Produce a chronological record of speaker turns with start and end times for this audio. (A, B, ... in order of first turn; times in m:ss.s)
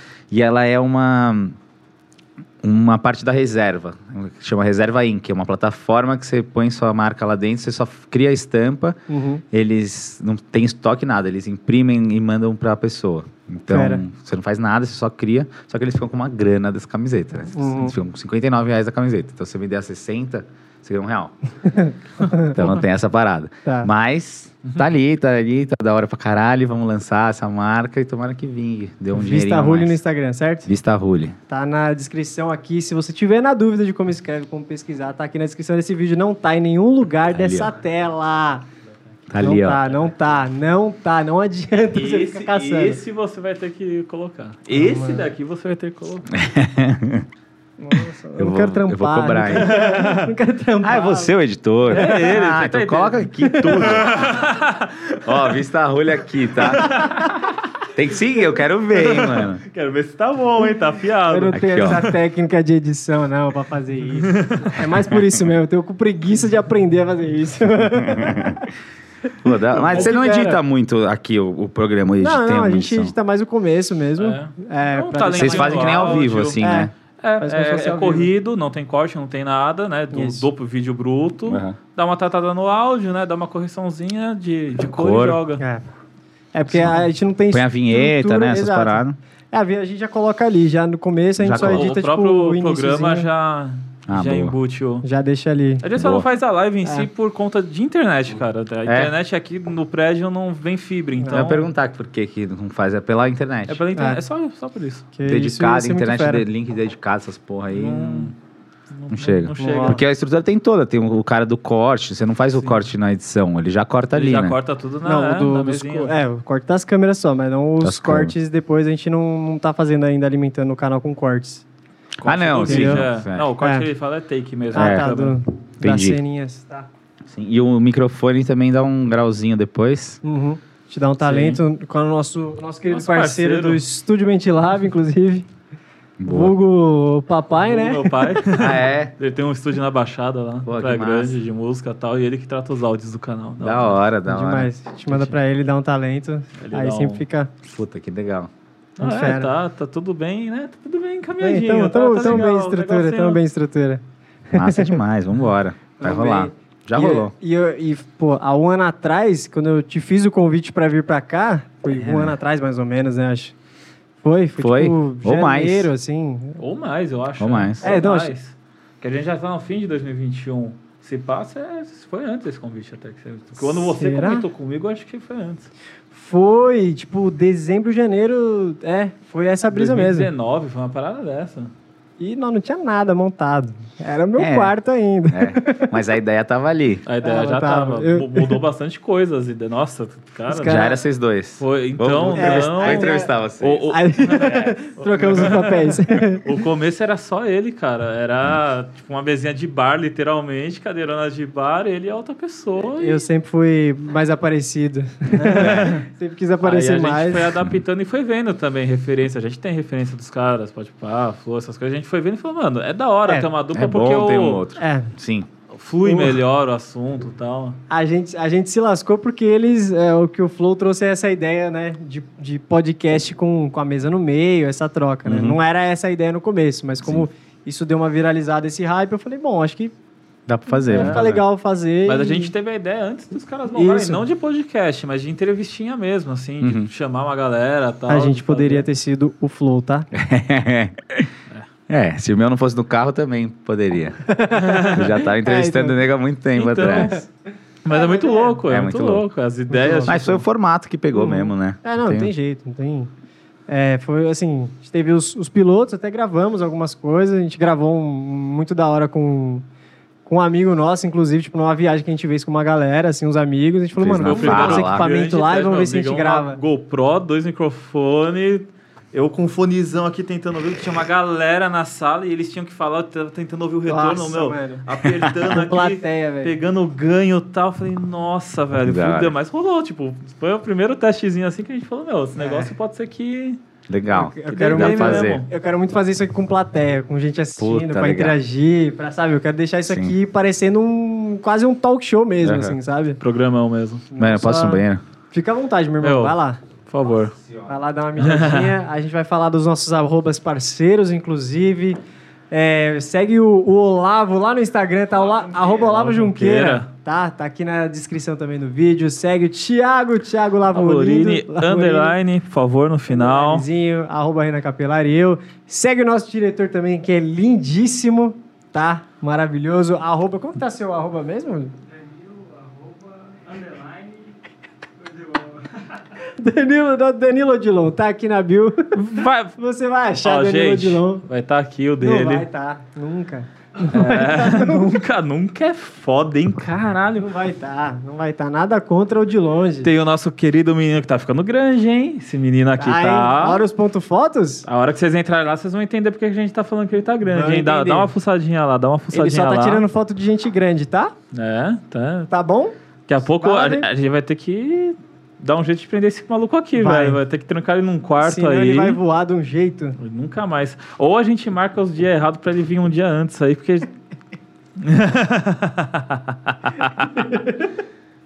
0:00.3-0:01.6 A
0:02.6-0:09.0 A
0:09.1-0:09.4 B
0:09.5-0:21.3 A
0:13.7-0:14.0 B
0:17.5-0:18.0 B
0:21.6-0:22.8 B
0:22.5-0:30.0 A
0:29.1-0:30.7 B
0:30.7-0:31.4 A
0:31.5-0:38.6 B
0:37.3-0:37.7 A
0:39.3-0:39.8 A
0:39.4-0:43.0 B
0:41.9-0:46.3 C
0:44.7-0:45.3 B
0:46.3-0:47.3 A
0:47.8-0:51.3 B
0:48.4-0:49.7 A
0:49.5-0:50.3 C
0:50.8-0:54.5 A
0:51.9-0:55.4 C
0:51.9-0:52.3 B
0:53.4-0:54.0 B
0:55.2-0:57.0 A
0:56.6-0:57.5 C
0:56.8-0:57.3 B
0:57.9-0:59.6 A
0:58.9-1:02.0 C
1:01.3-1:08.7 B
1:01.5-1:02.1 A
1:04.2-1:04.8 C
1:08.0-1:08.7 A
1:09.4-1:13.1 A
1:09.8-1:10.6 C
1:09.9-1:10.6 B
1:12.2-1:18.3 B
1:14.2-1:16.6 C
1:15.3-1:16.9 A
1:17.2-1:25.6 C
1:20.1-1:20.5 B
1:21.5-1:21.8 A
1:24.8-1:25.4 A
1:25.6-1:25.8 B
1:26.5-1:33.3 B
1:27.5-1:29.2 A
1:31.4-1:31.9 A
1:31.5-1:35.0 C
1:34.1-1:34.6 A
1:35.0-1:35.9 B
1:35.8-1:41.7 C
1:36.0-1:36.3 A
1:38.9-1:39.1 A
1:41.3-1:43.8 A
1:43.7-1:45.1 C
1:44.0-1:44.2 B
1:45.1-1:46.4 B
1:45.2-1:48.3 A
1:47.7-1:48.4 C
1:48.9-1:50.0 C
1:49.1-1:54.6 A
1:49.6-1:50.0 B
1:54.1-1:56.2 C
1:55.0-2:01.6 B
1:57.8-1:58.3 A
2:02.2-2:05.4 C
2:02.2-2:03.5 A
2:02.6-2:03.1 B
2:03.6-2:03.9 B
2:04.7-2:05.1 A
2:04.7-2:06.9 B
2:05.8-2:06.2 A
2:07.3-2:10.2 A
2:10.2-2:15.5 B
2:11.2-2:11.6 C
2:12.9-2:13.8 C
2:16.2-2:16.6 A
2:16.2-2:18.4 B
2:17.6-2:24.0 C
2:18.5-2:19.2 A
2:20.7-2:21.4 A
2:23.6-2:24.7 A
2:24.3-2:27.5 B
2:25.1-2:25.4 C
2:26.6-2:27.2 C
2:27.6-2:28.5 A
2:29.0-2:33.4 C
2:29.0-2:29.5 B
2:31.4-2:35.0 B
2:34.5-2:37.3 A
2:36.0-2:43.5 B
2:41.9-2:42.4 A
2:44.2-2:46.6 B
2:44.6-2:45.9 A
2:46.6-2:55.7 C
2:47.4-2:47.9 A
2:47.8-2:48.3 B
2:53.6-2:54.5 B
2:56.1-3:00.3 B
2:59.7-3:01.7 C
3:02.2-3:05.9 B
3:04.4-3:04.8 A
3:05.3-3:07.0 A
3:07.1-3:10.9 C
3:07.2-3:08.6 B
3:10.5-3:11.0 B
3:10.6-3:13.9 A
3:11.6-3:23.2 C
3:12.4-3:13.3 B
3:13.9-3:16.5 B
3:23.0-3:27.5 B
3:25.4-3:26.0 C
3:25.6-3:26.0 A
3:26.6-3:34.6 C
3:33.7-3:35.5 A
3:34.8-3:35.1 B
3:35.7-3:37.8 C
3:36.0-3:36.4 B
3:37.9-3:49.9 B
3:45.3-3:45.6 A
3:50.5-3:51.4 A
3:50.7-3:52.5 B
3:50.9-3:51.3 C
3:52.1-3:58.9 C
3:53.8-3:54.2 B
3:56.6-3:56.9 A
3:58.1-4:00.1 B
4:00.1-4:01.3 A
4:01.9-4:04.3 A
4:04.3-4:06.0 B
4:04.6-4:05.1 C
4:04.8-4:07.2 A
4:06.5-4:07.2 C
4:06.9-4:07.2 B
4:07.8-4:10.4 C
4:07.9-4:08.6 B
4:08.7-4:09.3 A
4:09.7-4:10.3 B
4:10.1-4:12.3 A
4:11.1-4:13.1 B
4:13.7-4:19.6 B
4:20.3-4:26.6 B
4:24.0-4:25.1 A
4:24.2-4:43.6 C
4:33.9-4:34.8 B
4:35.5-4:36.5 B
4:38.8-4:39.4 A
4:42.4-4:42.7 B
4:43.9-4:45.4 A
4:44.1-4:53.2 B
4:44.5-4:45.5 C
4:47.6-4:48.4 A
4:49.9-4:50.1 A
4:52.4-4:52.8 A
4:53.2-4:54.0 C
4:54.1-4:56.6 B
4:54.2-4:55.0 A
4:56.0-4:56.4 C
4:56.9-4:57.4 C
4:57.1-4:57.7 A
4:57.7-5:02.0 B
4:58.2-4:58.8 C
5:02.5-5:12.2 B
5:05.8-5:06.9 C
5:10.7-5:13.7 C
5:13.1-5:21.8 B
5:26.2-5:29.0 B
5:28.9-5:29.6 C
5:29.6-5:31.2 B
5:30.2-5:32.5 C
5:32.0-5:35.0 B
5:33.8-5:37.2 C
5:37.1-5:39.9 B
5:39.8-5:43.6 C
5:42.8-5:44.7 B
5:44.7-5:49.8 C
5:47.3-5:48.1 B
5:49.1-5:51.1 B
5:51.3-5:52.3 C
5:52.3-5:53.9 B
5:53.1-5:59.0 C
5:56.8-5:57.2 B
5:58.2-6:00.0 B
6:00.0-6:03.9 C
6:04.8-6:07.2 C
6:07.1-6:07.7 B